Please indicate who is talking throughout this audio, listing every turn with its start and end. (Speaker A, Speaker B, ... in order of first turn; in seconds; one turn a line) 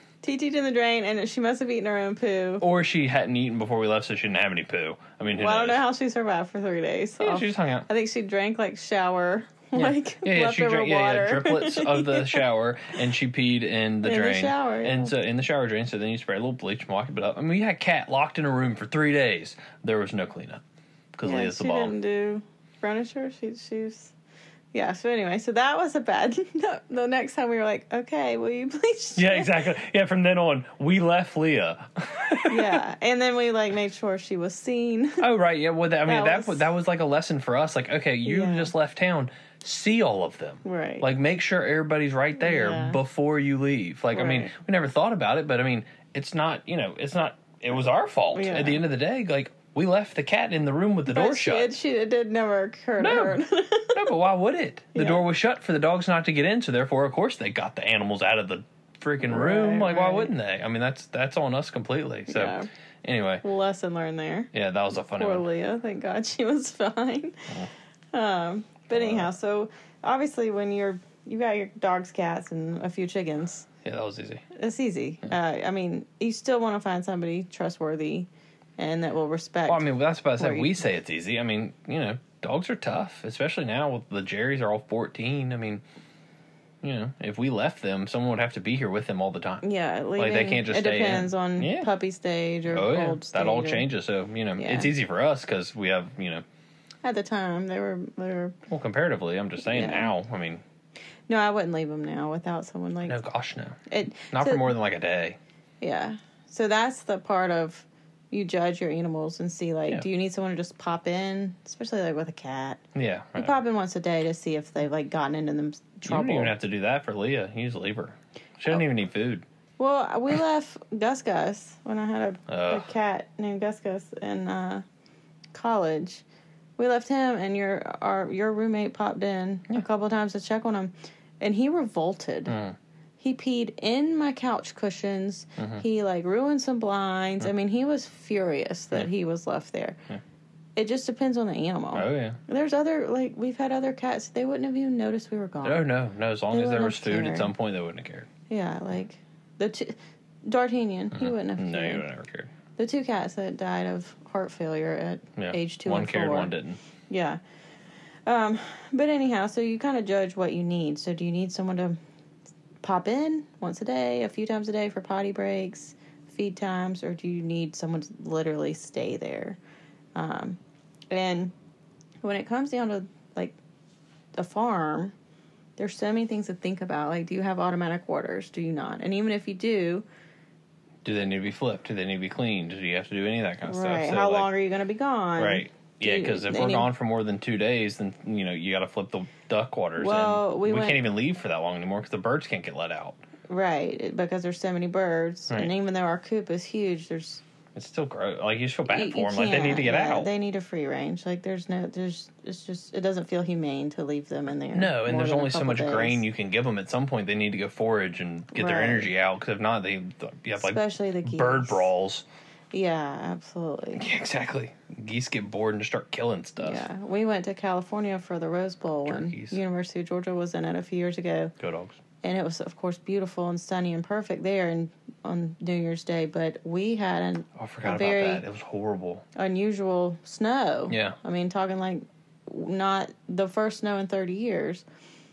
Speaker A: 0.2-2.6
Speaker B: 2.6-5.8
Speaker A: 5.4-12.4
Speaker B: 7.2-7.9
Speaker B: 9.8-20.6
Speaker A: 14.0-15.1
Speaker B: 21.1-21.9
Speaker A: 21.2-24.1
Speaker A: 24.7-29.7
Speaker B: 29.1-32.8
Speaker A: 32.5-35.2
Speaker B: 35.2-51.7
Speaker A: 36.0-36.7
Speaker A: 38.2-38.7
Speaker A: 40.6-41.1
Speaker A: 42.4-43.0
Speaker A: 44.1-44.5
Speaker A: 48.3-48.8
Speaker A: 51.1-54.0
Speaker B: 53.0-63.4
Speaker A: 54.9-55.2
Speaker A: 59.2-60.3
Speaker A: 62.3-62.7
Speaker A: 63.4-67.5
Speaker B: 64.5-65.4
Speaker A: 68.1-73.7
Speaker B: 68.9-69.3
Speaker B: 73.8-74.4
Speaker A: 74.5-80.8
Speaker B: 79.7-85.8
Speaker B: 86.8-89.6
Speaker A: 89.6-93.9
Speaker B: 90.2-91.9
Speaker B: 92.7-96.4
Speaker A: 94.6-94.9
Speaker A: 97.0-98.6
Speaker B: 98.7-100.6
Speaker A: 99.6-100.1
Speaker A: 101.3-103.2
Speaker B: 103.0-103.8
Speaker A: 103.9-104.7
Speaker B: 104.3-105.4
Speaker A: 105.8-112.8
Speaker B: 112.9-113.5
Speaker A: 113.3-116.5
Speaker B: 116.0-119.4
Speaker A: 119.8-124.8
Speaker B: 122.5-122.9
Speaker A: 125.5-126.2
Speaker A: 126.8-132.6
Speaker B: 132.5-132.8
Speaker A: 133.2-140.0
Speaker B: 135.6-135.8
Speaker A: 140.8-145.8
Speaker B: 141.9-142.4
Speaker B: 145.6-148.3
Speaker A: 146.5-147.5
Speaker A: 148.5-152.0
Speaker B: 151.1-152.5
Speaker A: 152.8-156.5
Speaker B: 155.4-156.8
Speaker A: 157.1-157.4
Speaker A: 158.2-162.0
Speaker A: 162.8-169.6
Speaker A: 170.1-170.6
Speaker A: 171.1-171.5
Speaker A: 172.2-173.6
Speaker A: 174.3-175.1
Speaker A: 175.8-180.0
Speaker B: 181.0-184.5
Speaker A: 183.6-186.9
Speaker B: 185.4-193.2
Speaker A: 190.0-191.0
Speaker A: 193.5-197.4
Speaker B: 197.7-200.3
Speaker A: 198.9-206.2
Speaker B: 204.7-212.2
Speaker A: 208.5-209.1
Speaker A: 210.6-211.9
Speaker A: 212.7-214.0
Speaker B: 214.0-216.8
Speaker A: 216.6-221.5
Speaker B: 219.0-219.6
Speaker B: 221.6-222.0
Speaker A: 222.2-228.4
Speaker B: 227.6-229.2
Speaker A: 229.3-234.8
Speaker B: 230.9-231.2